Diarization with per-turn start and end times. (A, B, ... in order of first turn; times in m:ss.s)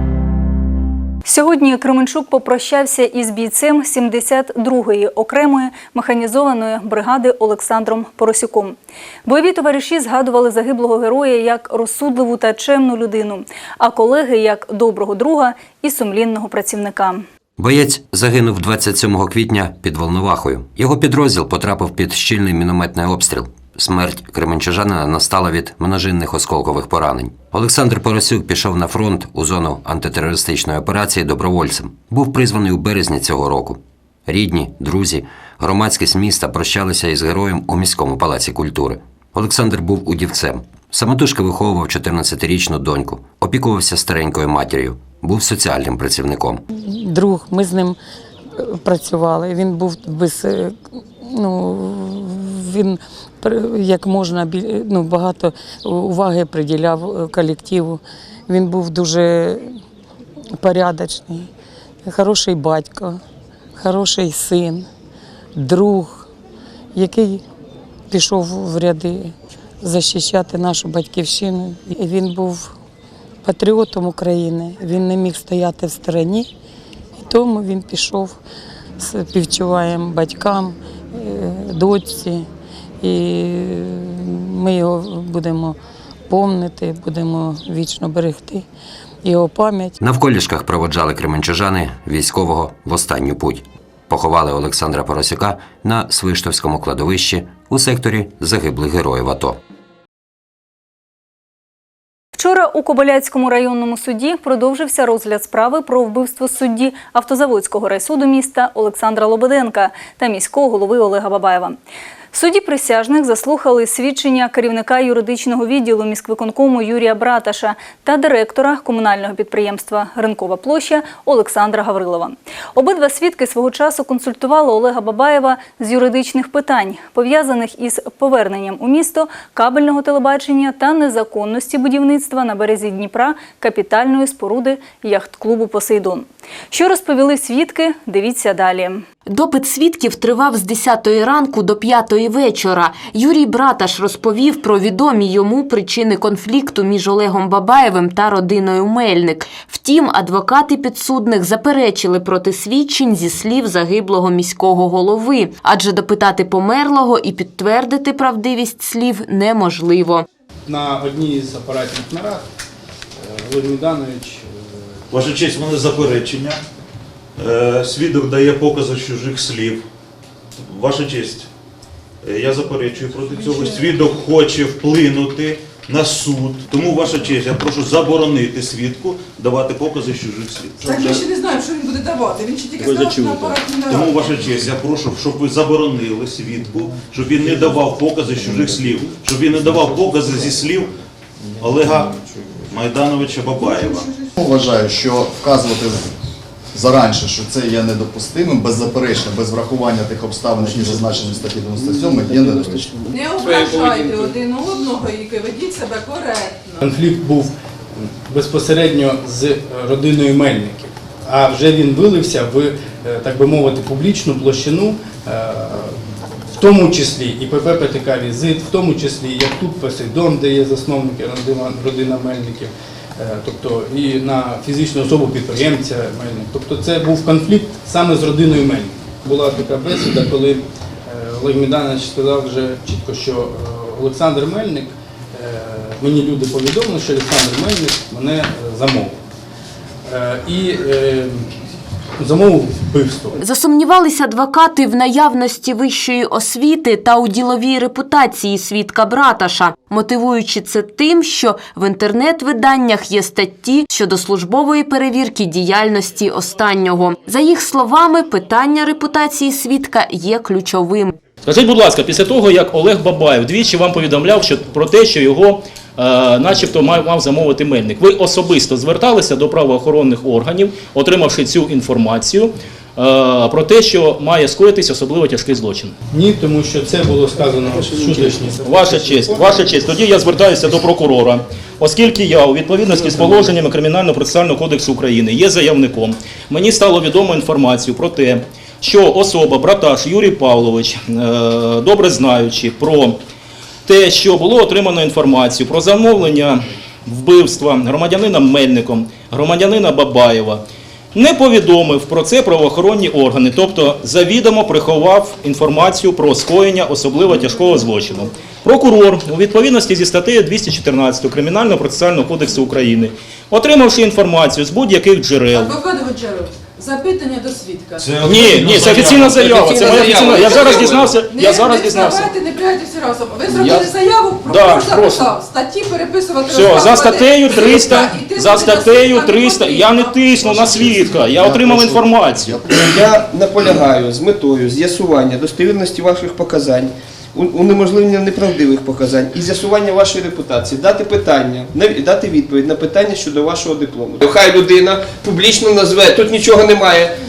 0:01.2-0:17.2 A
0:17.6-0:46.6 B
0:46.7-0:48.0 C
0:48.6-0:59.8 C
1:00.6-1:01.5 C
1:02.0-1:03.2 C
1:03.8-1:04.9 C
1:05.6-1:06.3 C
1:06.9-1:07.4 C
1:08.1-1:12.7 C
1:13.4-1:16.5 C
1:17.2-1:18.4 C
1:19.0-1:22.5 C
1:23.0-1:25.8 C
1:26.3-1:28.6 C
1:29.2-1:30.0 C
1:30.0-1:39.6 B
1:42.4-1:51.8 A
1:52.3-2:19.0 A
2:19.3-2:40.2 D
2:40.7-2:42.4 E
2:43.2-2:45.0 E
2:45.1-2:46.6 F
2:47.4-2:49.8 F
2:50.6-2:51.5 F
2:52.2-3:01.2 F
2:53.4-2:53.8 G
3:00.8-3:04.3 G
3:02.8-3:03.6 H
3:03.9-3:10.9 F
3:11.6-3:14.1 F
3:13.6-3:14.3 G
3:14.4-3:16.1 I
3:16.7-3:22.9 I
3:23.1-3:26.8 G
3:23.4-3:24.3 J
3:26.8-3:36.0 E
3:36.5-3:59.2 E
4:00.0-4:01.6 E
4:02.2-4:03.4 E
4:03.4-4:21.1 D
4:21.4-4:35.9 H
4:36.1-4:39.7 E
4:38.6-4:53.2 H
4:53.8-5:00.6 H
5:01.1-5:15.7 H
5:07.3-5:08.2 G
5:15.5-5:18.1 G
5:18.0-5:20.8 F
5:18.2-5:22.3 H
5:19.4-5:21.1 J
5:20.6-5:30.8 G
5:23.5-5:25.4 H
5:26.4-5:32.6 H
5:31.3-5:32.8 I
5:32.7-5:47.1 J